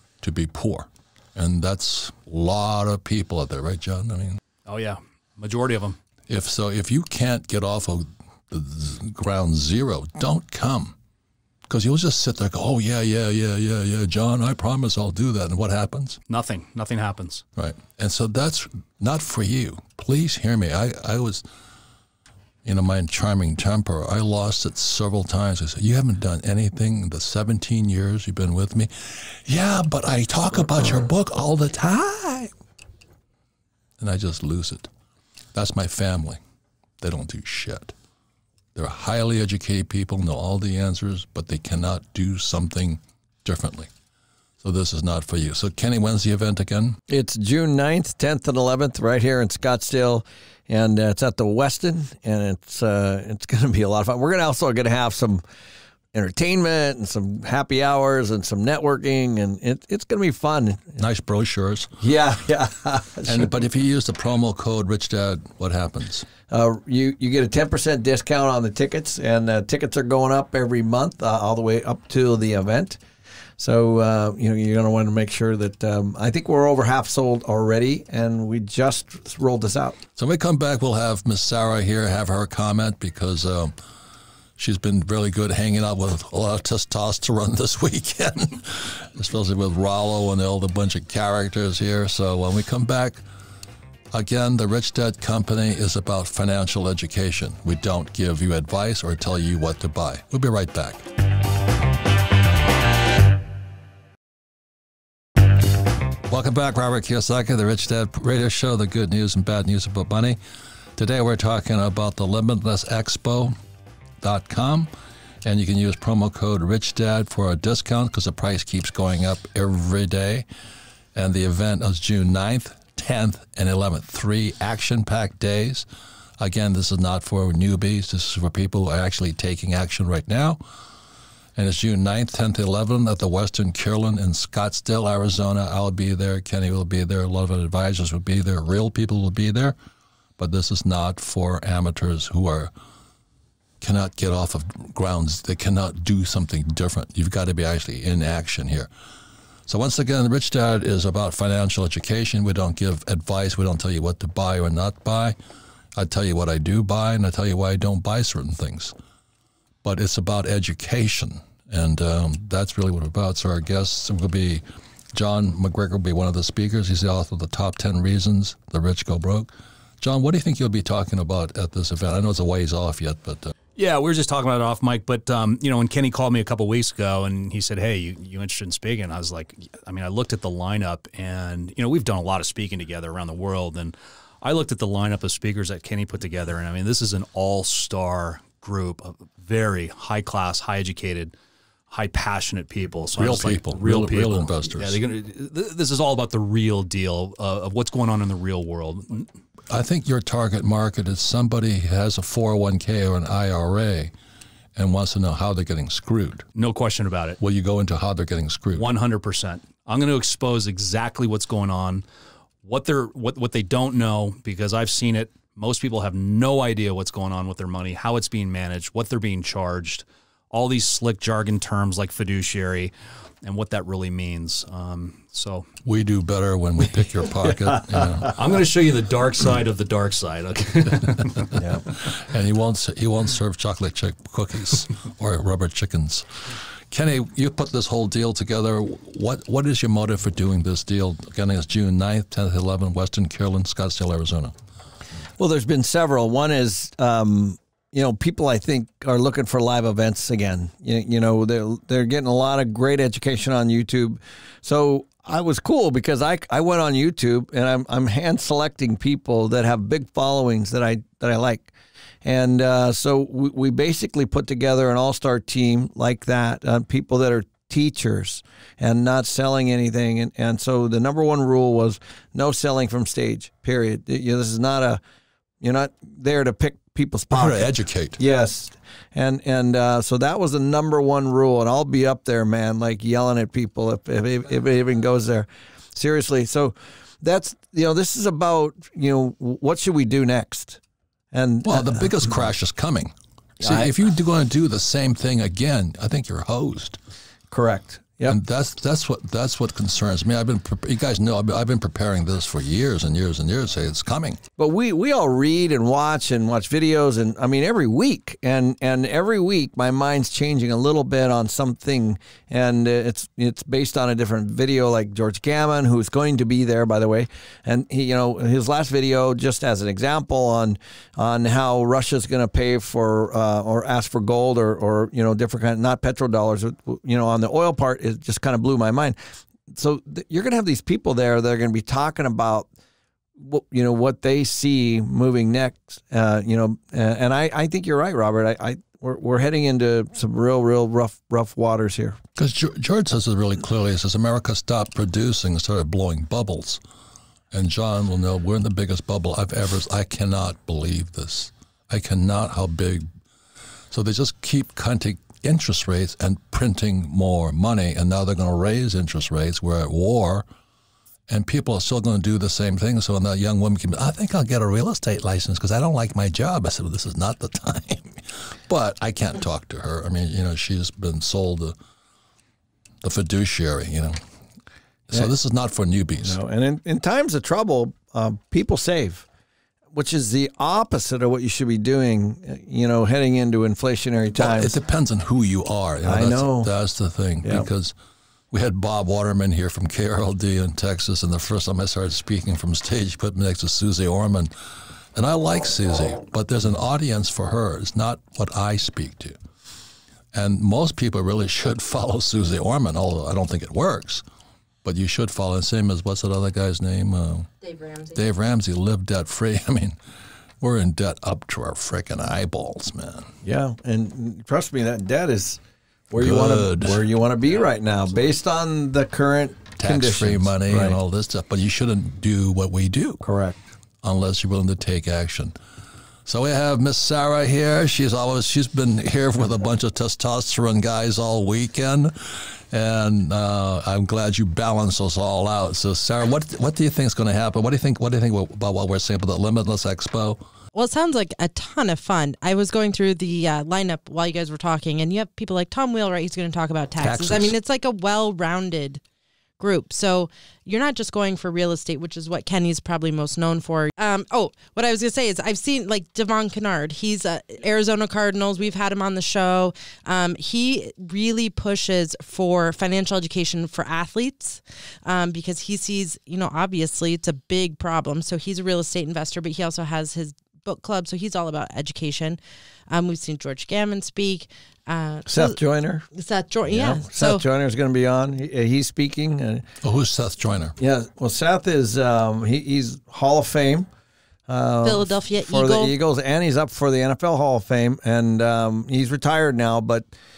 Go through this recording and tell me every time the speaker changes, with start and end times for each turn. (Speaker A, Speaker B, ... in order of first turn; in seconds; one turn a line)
Speaker A: 0.2-4.4
Speaker B: 4.7-6.0
Speaker A: 6.3-10.9
Speaker A: 11.7-16.2
Speaker B: 16.3-17.4
Speaker A: 17.6-21.4
Speaker A: 22.6-32.5
Speaker A: 34.0-34.9
Speaker A: 35.5-36.4
Speaker A: 37.0-37.9
Speaker A: 38.7-43.9
Speaker A: 44.6-47.0
Speaker C: 47.1-55.4
Speaker C: 56.1-61.0
Speaker A: 61.0-61.9
Speaker C: 62.0-63.5
Speaker A: 63.2-66.3
Speaker C: 66.5-73.0
Speaker C: 73.6-80.0
Speaker A: 80.2-83.7
Speaker A: 84.6-93.2
Speaker A: 94.1-101.0
Speaker A: 106.2-110.4
Speaker A: 111.0-113.5
Speaker A: 114.2-114.9
Speaker A: 115.4-120.5
Speaker A: 121.1-125.8
Speaker A: 126.4-130.6
Speaker A: 131.6-139.8
Speaker A: 140.4-142.7
Speaker A: 143.8-148.9
Speaker A: 149.7-155.3
Speaker A: 156.0-158.9
Speaker A: 159.8-173.5
Speaker B: 173.8-191.3
Speaker B: 191.9-199.3
Speaker A: 193.2-195.0
Speaker A: 199.7-204.1
Speaker A: 204.8-206.4
Speaker B: 206.5-207.4
Speaker A: 207.4-208.9
Speaker B: 208.7-212.0
Speaker B: 212.6-222.9
Speaker B: 223.4-225.7
Speaker A: 225.8-228.3
Speaker B: 228.3-231.5
Speaker C: 231.6-231.8
Speaker A: 231.6-244.5
Speaker C: 245.4-261.7
Speaker C: 262.2-275.0
Speaker C: 275.6-290.8
Speaker A: 277.3-278.2
Speaker C: 291.3-292.1
Speaker A: 291.6-297.0
Speaker C: 293.6-293.9
Speaker C: 297.5-298.4
Speaker A: 298.3-304.4
Speaker C: 304.6-329.1
Speaker C: 329.7-332.7
Speaker C: 333.4-342.2
Speaker A: 342.4-346.8
Speaker A: 347.5-353.1
Speaker A: 353.9-360.4
Speaker A: 361.3-371.7
Speaker A: 373.0-374.2
Speaker A: 375.1-376.4
Speaker C: 376.2-379.3
Speaker C: 379.9-384.7
Speaker A: 384.4-387.9
Speaker C: 386.0-386.7
Speaker A: 388.5-394.5
Speaker A: 395.1-399.4
Speaker A: 400.3-404.2
Speaker A: 404.8-407.5
Speaker A: 408.1-410.0
Speaker A: 410.6-413.3
Speaker C: 413.4-421.0
Speaker A: 416.2-417.0
Speaker A: 419.8-423.2
Speaker C: 423.2-423.6
Speaker A: 424.0-425.5
Speaker A: 426.2-440.4
Speaker D: 440.7-449.0
Speaker A: 447.0-447.6
Speaker D: 449.6-472.4
Speaker D: 472.9-475.6
Speaker C: 475.3-476.1
Speaker D: 476.1-477.4
Speaker C: 476.6-479.6
Speaker A: 479.8-480.8
Speaker C: 480.8-483.9
Speaker C: 484.5-490.1
Speaker D: 484.8-485.9